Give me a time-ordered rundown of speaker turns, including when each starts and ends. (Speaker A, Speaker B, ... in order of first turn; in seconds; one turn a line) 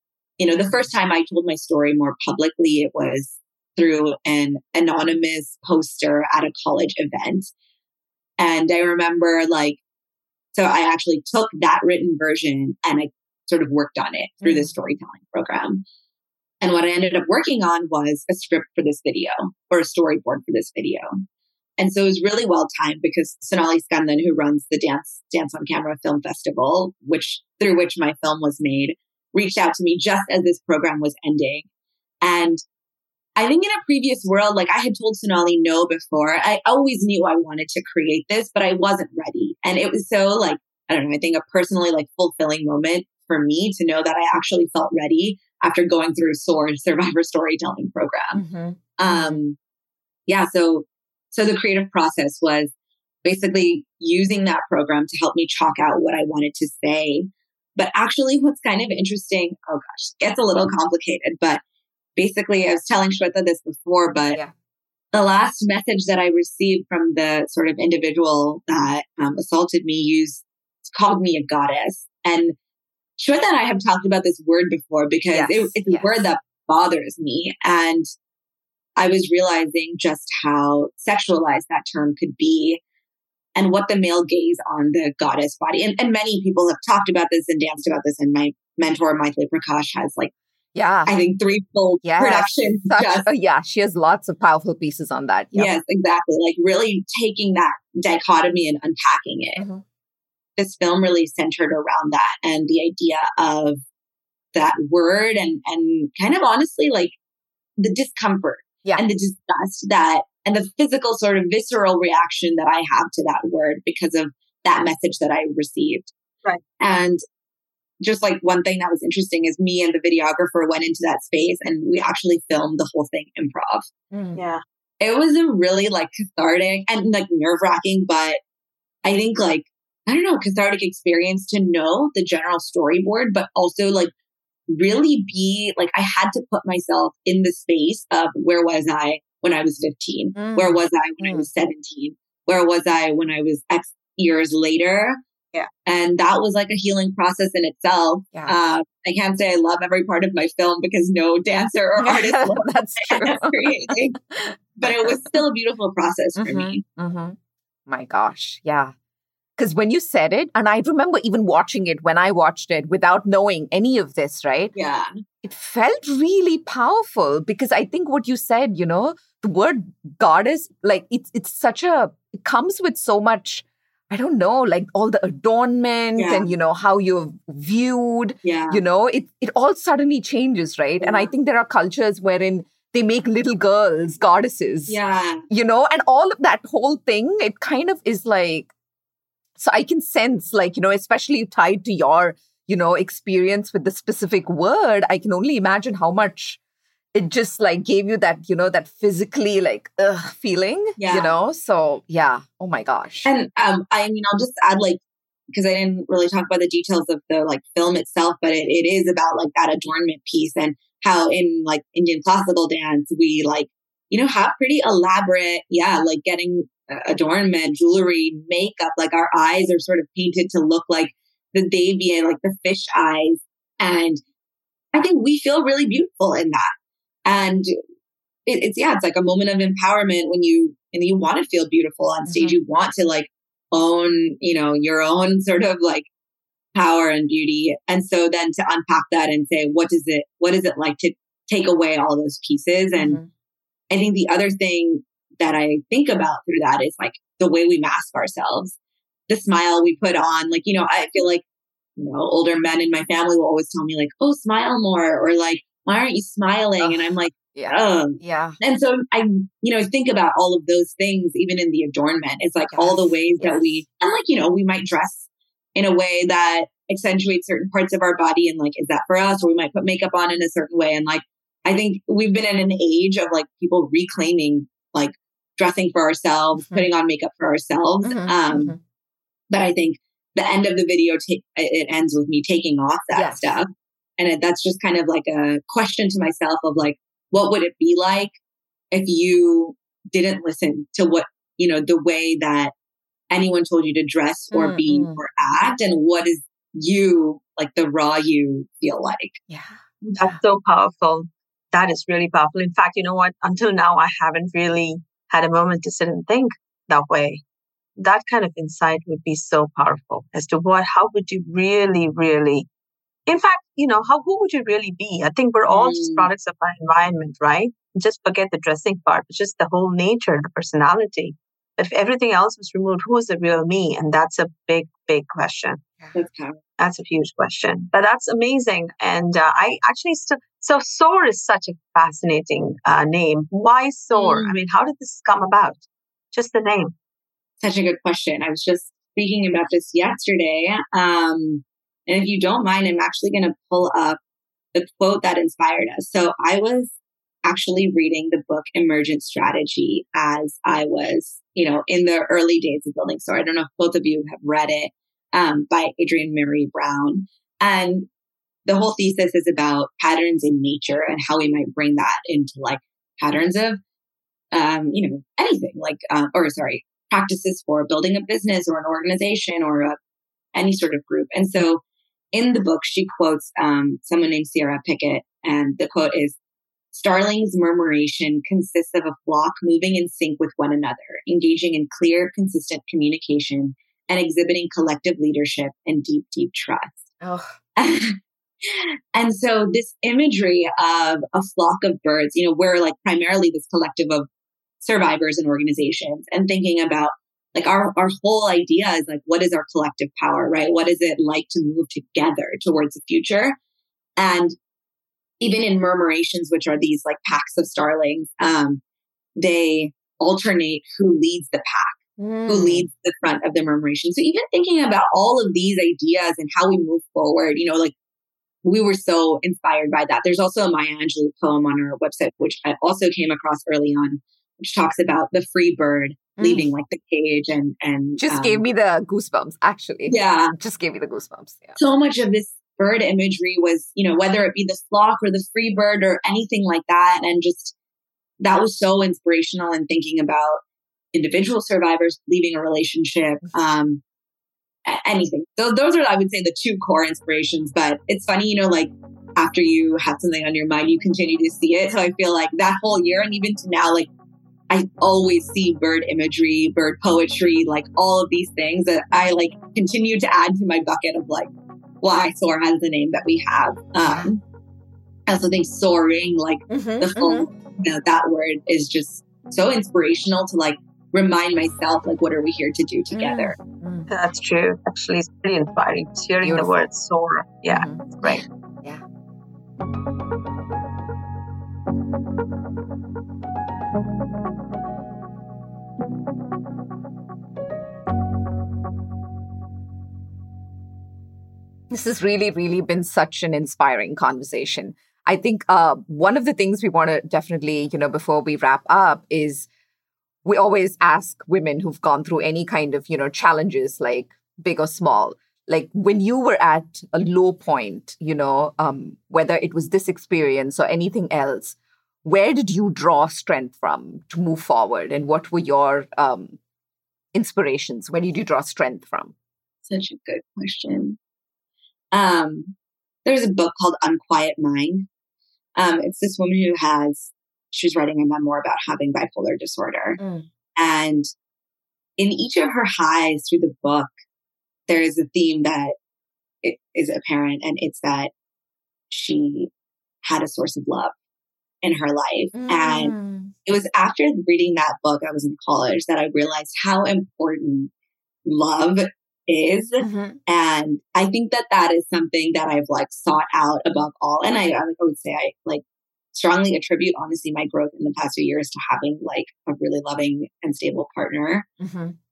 Speaker A: 0.4-7.5
Speaker A: 8.4-9.8
Speaker A: 10.5-15.8
Speaker B: 14.4-14.7
Speaker A: 16.6-21.2
Speaker A: 21.8-31.6
Speaker A: 32.2-32.6
Speaker A: 33.4-48.4
Speaker B: 48.3-49.4
Speaker A: 49.0-49.6
Speaker A: 50.3-52.7
Speaker A: 53.2-61.6
Speaker A: 62.1-64.4
Speaker A: 65.1-72.5
Speaker A: 73.2-78.0
Speaker B: 75.3-76.3
Speaker A: 79.0-82.8
Speaker A: 83.5-90.3
Speaker B: 90.7-91.1
Speaker A: 91.0-93.3
Speaker B: 92.0-95.7
Speaker A: 95.5-99.6
Speaker B: 99.5-99.8
Speaker A: 100.6-103.8
Speaker A: 104.5-107.1
Speaker A: 107.8-116.1
Speaker A: 116.8-117.2
Speaker A: 118.0-123.9
Speaker B: 124.1-124.4
Speaker C: 124.3-124.6
Speaker A: 125.0-128.4
Speaker A: 129.0-134.1
Speaker A: 134.7-145.2
Speaker B: 140.3-141.4
Speaker A: 145.8-154.2
Speaker B: 152.0-155.4
Speaker A: 154.8-156.8
Speaker B: 156.4-157.4
Speaker B: 157.9-158.9
Speaker B: 159.6-164.7
Speaker A: 164.7-165.1
Speaker B: 165.4-185.0
Speaker A: 176.2-176.5
Speaker A: 178.4-178.8
Speaker A: 181.0-181.3
Speaker A: 184.9-185.4
Speaker B: 185.5-188.7
Speaker B: 189.6-196.6
Speaker B: 197.1-203.3
Speaker A: 201.0-201.3
Speaker A: 203.2-205.0
Speaker A: 205.5-224.2
Speaker A: 224.9-226.7
Speaker A: 227.2-227.7
Speaker A: 228.4-236.1
Speaker B: 232.3-232.6
Speaker A: 236.7-243.2
Speaker B: 243.0-243.3
Speaker A: 243.9-248.7
Speaker A: 249.3-251.4
Speaker A: 252.0-278.7
Speaker B: 256.8-258.6
Speaker B: 262.7-263.8
Speaker B: 276.6-276.8
Speaker B: 278.0-278.8
Speaker A: 279.5-288.3
Speaker B: 283.1-283.5
Speaker A: 288.9-292.7
Speaker A: 293.3-299.4
Speaker B: 294.5-295.2
Speaker B: 299.5-300.4
Speaker C: 300.0-307.4
Speaker C: 308.0-312.7
Speaker C: 313.3-325.8
Speaker A: 315.7-316.3
Speaker A: 326.1-326.6
Speaker C: 326.8-336.9
Speaker A: 334.2-334.5
Speaker A: 337.6-344.2
Speaker A: 344.7-358.1
Speaker A: 358.6-363.8
Speaker A: 364.5-369.9
Speaker A: 370.5-371.8
Speaker A: 372.3-376.4
Speaker A: 376.9-387.0
Speaker B: 387.2-387.5
Speaker A: 387.8-394.3
Speaker A: 394.8-403.6
Speaker A: 404.2-404.5
Speaker A: 405.4-408.8
Speaker A: 409.4-417.9
Speaker B: 412.2-412.9
Speaker A: 418.6-428.6
Speaker B: 426.4-426.7
Speaker B: 428.2-431.8
Speaker A: 430.1-430.5
Speaker A: 431.8-437.7
Speaker A: 438.4-440.6
Speaker A: 441.1-444.0
Speaker A: 444.9-454.1
Speaker A: 454.7-461.5
Speaker A: 462.0-464.4
Speaker B: 464.0-464.3
Speaker A: 465.3-473.5
Speaker B: 466.7-467.5
Speaker B: 473.1-474.1
Speaker C: 474.1-478.4
Speaker B: 476.4-476.9
Speaker B: 477.7-479.0
Speaker B: 491.9-499.7
Speaker B: 500.4-516.6
Speaker B: 517.3-519.3
Speaker A: 519.9-521.2
Speaker A: 522.1-525.1
Speaker A: 525.8-530.2
Speaker B: 530.2-530.5
Speaker A: 530.8-531.3
Speaker A: 532.2-534.1
Speaker A: 534.9-535.9
Speaker A: 536.6-538.3
Speaker A: 539.1-539.7
Speaker A: 540.2-541.1
Speaker A: 541.8-547.9
Speaker B: 542.5-543.5
Speaker A: 548.5-555.8
Speaker B: 550.0-550.4
Speaker A: 556.3-561.7
Speaker B: 561.8-562.1